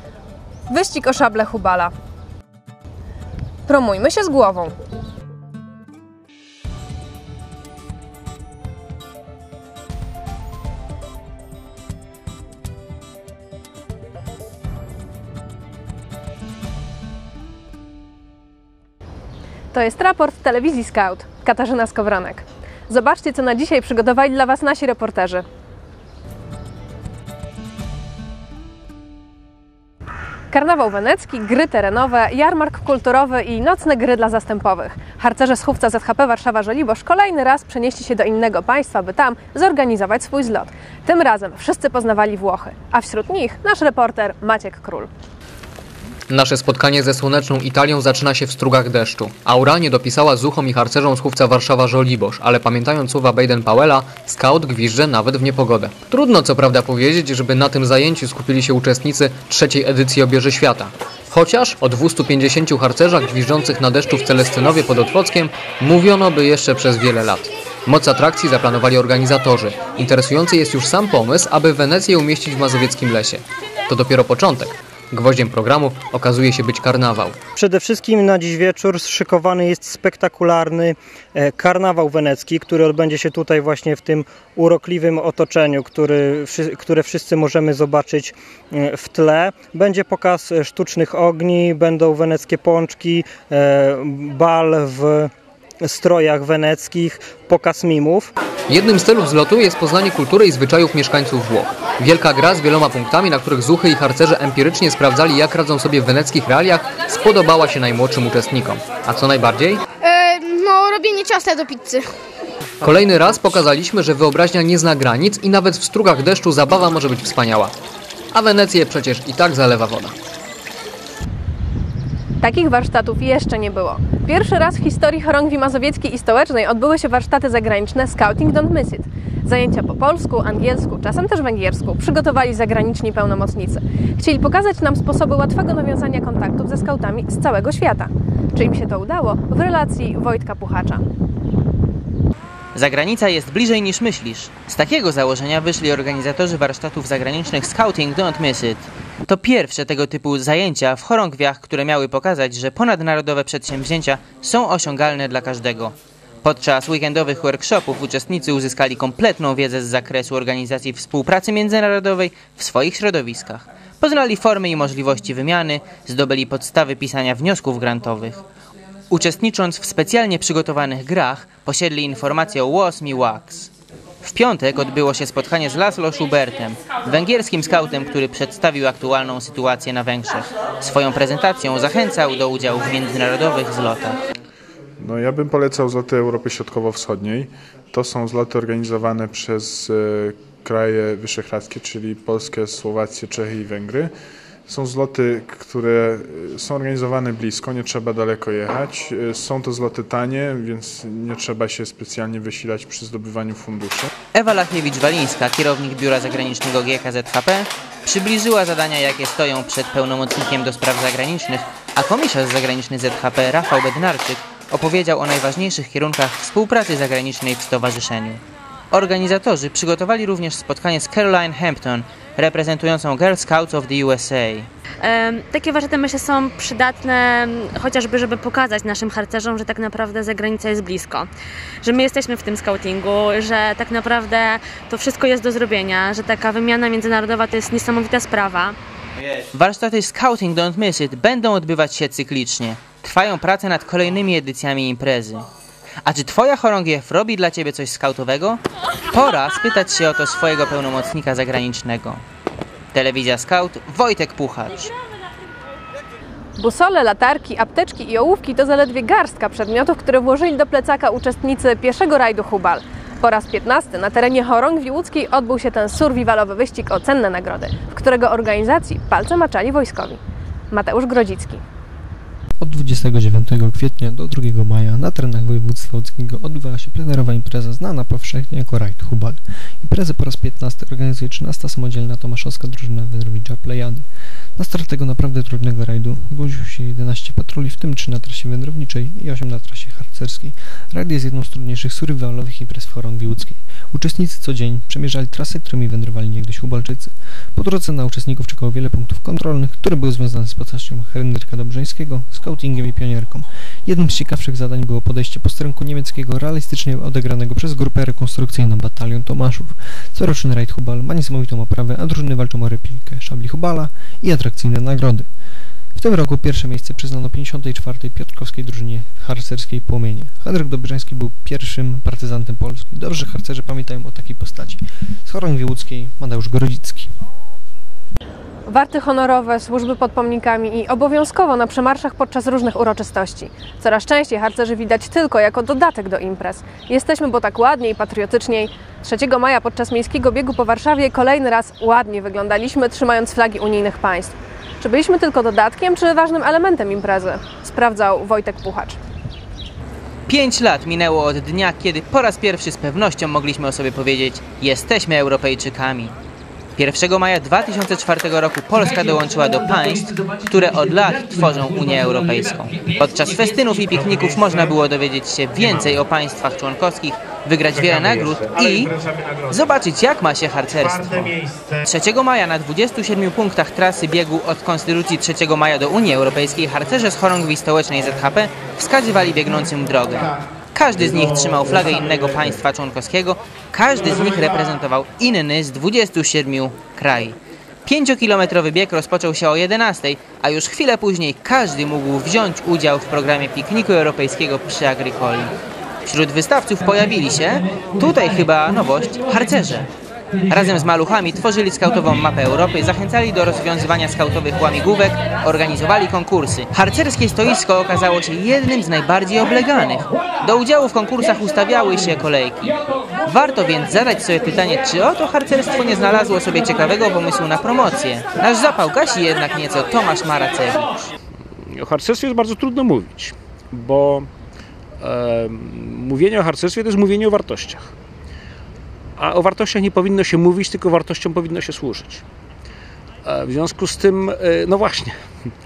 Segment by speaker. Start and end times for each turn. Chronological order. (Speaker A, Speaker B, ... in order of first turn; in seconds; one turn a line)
Speaker A: 0.7-1.9
Speaker A: 3.6-4.7
Speaker A: 19.7-25.4
Speaker A: 30.5-45.1
Speaker B: 46.3-77.4
Speaker C: 77.5-95.3
Speaker C: 95.8-98.3
Speaker B: 98.7-109.8
Speaker D: 110.0-112.0
Speaker B: 112.8-117.7
Speaker B: 118.3-120.1
Speaker A: 122.4-141.0
Speaker E: 142.7-168.4
Speaker E: 169.1-173.7
Speaker E: 174.2-184.2
Speaker F: 185.0-194.1
Speaker F: 194.7-204.1
Speaker E: 204.3-224.7
Speaker G: 225.0-231.3
Speaker G: 231.8-238.8
Speaker E: 239.5-245.5
Speaker E: 246.0-248.6
Speaker E: 249.1-252.2
Speaker E: 252.9-254.9
Speaker A: 256.6-270.2
Speaker A: 270.7-271.6
Speaker H: 272.6-315.3
Speaker H: 315.9-327.1
Speaker A: 328.7-349.0
Speaker E: 350.3-356.1
Speaker E: 356.8-395.5
Speaker E: 396.0-399.9
Speaker E: 400.5-421.1
Speaker I: 421.7-424.3
Speaker I: 425.0-427.9
Speaker I: 429.2-432.2
Speaker I: 433.2-435.5